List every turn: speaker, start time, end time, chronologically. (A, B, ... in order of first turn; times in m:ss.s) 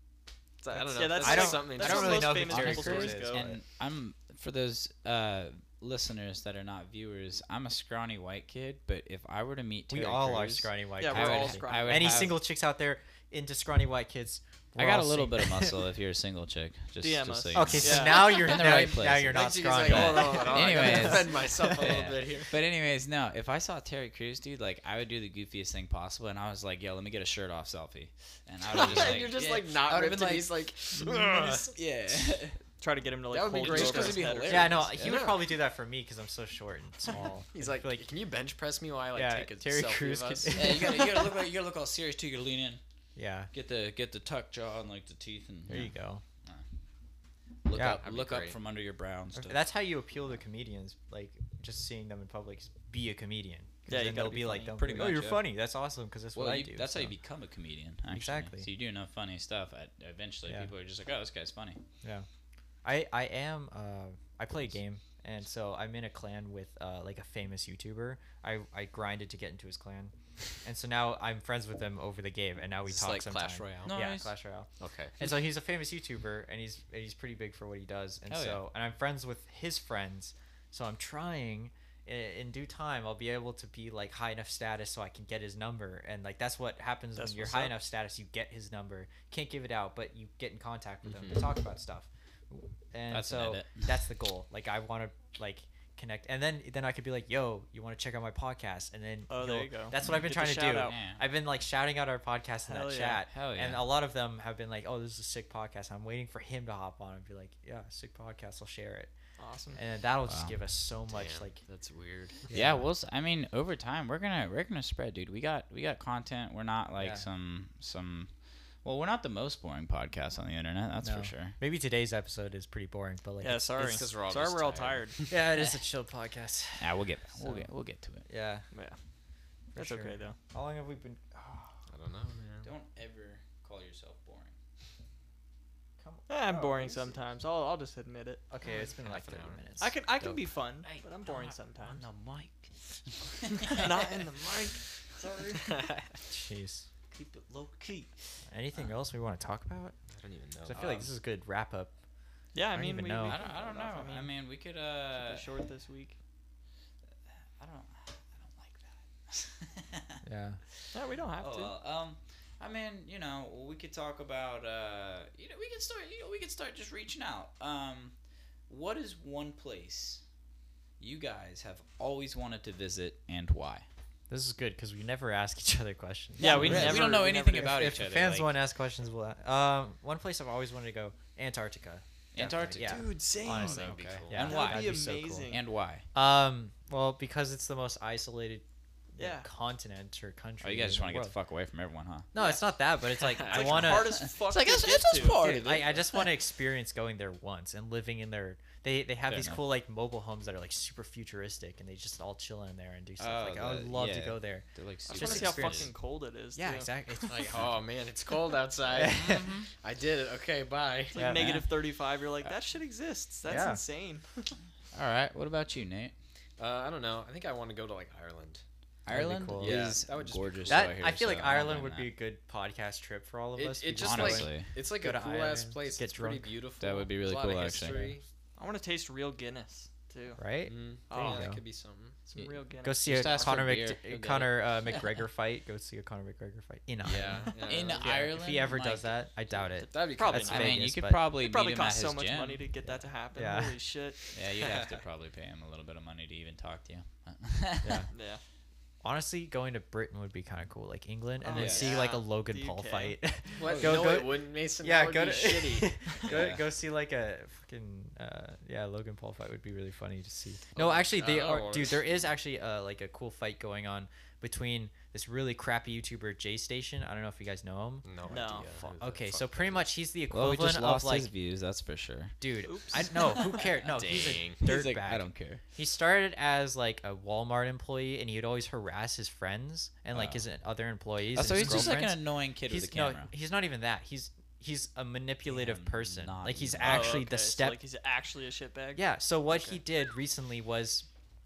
0:00.6-0:02.4 A
0:00.7-0:03.6 B
0:00.9-0:03.4 C
0:02.4-0:12.4 D
0:09.9-0:15.8 B
0:11.0-0:12.4 C
0:14.8-0:32.6 D
0:17.0-0:18.4 C
0:17.5-0:21.9 B
0:18.4-0:22.5 A
0:28.7-0:31.8 A
0:32.8-0:34.8 C
0:33.3-0:35.5 A
0:33.6-0:35.2 D
0:34.5-0:38.1 B
0:37.5-0:40.9 A
0:39.1-0:41.3 B
0:40.6-0:42.8 D
0:43.2-0:43.5 B
0:43.5-0:45.9 D
0:45.7-0:46.2 B
0:47.6-0:49.6 D
0:47.7-0:48.0 B
0:48.0-0:48.6 A
0:49.4-0:57.1 B
0:53.9-0:54.7 C
0:54.4-0:55.5 D
0:56.4-1:01.8 D
0:58.1-0:58.7 B
1:00.5-1:00.7 B
1:02.0-1:02.3 B
1:02.8-1:49.1 B
1:12.9-1:13.9 A
1:13.8-1:14.3 D
1:14.8-1:15.2 A
1:18.3-1:18.6 D
1:27.2-1:27.8 C
1:31.0-1:31.5 A
1:33.1-1:33.9 D
1:39.3-1:41.0 C
1:40.8-1:41.2 D
1:42.7-1:43.2 C
1:43.3-1:43.9 D
1:49.4-1:49.8 C
1:49.7-1:51.6 B
1:50.3-1:50.6 D
1:51.1-1:52.5 A
1:52.5-1:52.9 B
1:52.5-1:58.3 D
1:57.0-1:57.2 B
1:58.8-2:01.6 D
2:01.0-2:04.0 B
2:03.4-2:05.2 C
2:03.8-2:05.3 A
2:05.3-2:07.7 B
2:06.8-2:08.3 D
2:08.2-2:08.7 B
2:08.7-2:09.0 C
2:09.7-2:11.8 B
2:09.8-2:10.4 C
2:11.9-2:12.7 A
2:12.6-2:14.5 D
2:16.0-2:17.2 B
2:16.3-2:18.4 C
2:18.5-2:20.4 B
2:19.0-2:19.6 A
2:19.8-2:22.0 C
2:20.8-2:24.2 D
2:23.6-2:24.8 C
2:25.2-2:25.6 B
2:25.5-2:26.2 A
2:26.3-2:26.9 B
2:27.1-2:28.1 D
2:28.5-2:30.0 B
2:30.2-2:31.1 A
2:30.6-2:31.9 B
2:30.8-2:31.0 D
2:32.5-2:34.3 C
2:32.7-2:33.4 B
2:33.2-2:35.5 D
2:35.1-2:36.2 C
2:37.6-2:40.2 D
2:40.2-2:40.6 B
2:40.9-2:41.7 C
2:41.4-2:48.1 D
2:48.7-2:50.2 D
2:51.0-2:53.9 D
2:54.3-3:05.5 B
2:56.4-2:57.7 C
2:56.4-2:58.6 D
3:02.3-3:06.0 D
3:02.8-3:05.6 C
3:03.4-3:04.5 A
3:06.1-3:11.3 B
3:09.2-3:09.5 C
3:10.6-3:12.3 D
3:12.3-3:14.2 B
3:12.4-3:12.6 C
3:13.4-3:13.9 A
3:13.4-3:15.5 C
3:13.9-3:16.3 D
3:15.3-3:25.9 B
3:19.3-3:19.6 D
3:23.2-3:25.9 D
3:25.1-3:27.4 C
3:26.6-3:27.6 B
3:27.3-3:31.4 A
3:28.9-3:29.4 B
3:29.0-3:29.7 D
3:31.1-3:34.5 C
3:31.1-3:31.6 B
3:31.4-3:31.7 D
3:33.5-3:33.8 B
3:34.9-3:36.1 D
3:36.6-3:38.6 A
3:39.1-3:42.1 D
3:39.1-3:39.9 B
3:39.6-3:40.9 A
3:40.7-3:46.5 B
3:43.6-3:48.2 A
3:44.0-3:44.7 D
3:46.8-3:48.2 D
3:48.6-3:50.4 C
3:50.4-3:51.6 B
3:50.7-3:52.2 A
3:51.1-3:51.5 C
3:52.3-3:53.6 C
3:52.4-3:55.2 D
3:52.8-4:01.2 B
3:57.0-3:58.1 A
3:57.6-3:59.1 D
3:59.8-4:04.2 C
3:59.9-4:00.7 A
4:00.4-4:02.7 D
4:03.4-4:03.8 B
4:04.3-4:08.0 D
4:07.8-4:08.1 B
4:08.1-4:08.4 C
4:09.0-4:31.3 B
4:11.4-4:13.2 C
4:11.6-4:11.9 D
4:13.6-4:16.3 A
4:13.6-4:14.1 D
4:16.2-4:16.6 D
4:20.7-4:22.2 A
4:28.0-4:29.9 A
4:28.3-4:28.7 C
4:30.3-4:32.4 D
4:32.4-4:47.8 B
4:32.6-4:33.7 C
4:33.8-4:34.6 A
4:34.6-4:35.6 D
4:40.1-4:40.4 D
4:41.3-4:43.3 D
4:45.5-4:47.2 D
4:46.8-4:49.8 C
4:49.0-4:51.1 B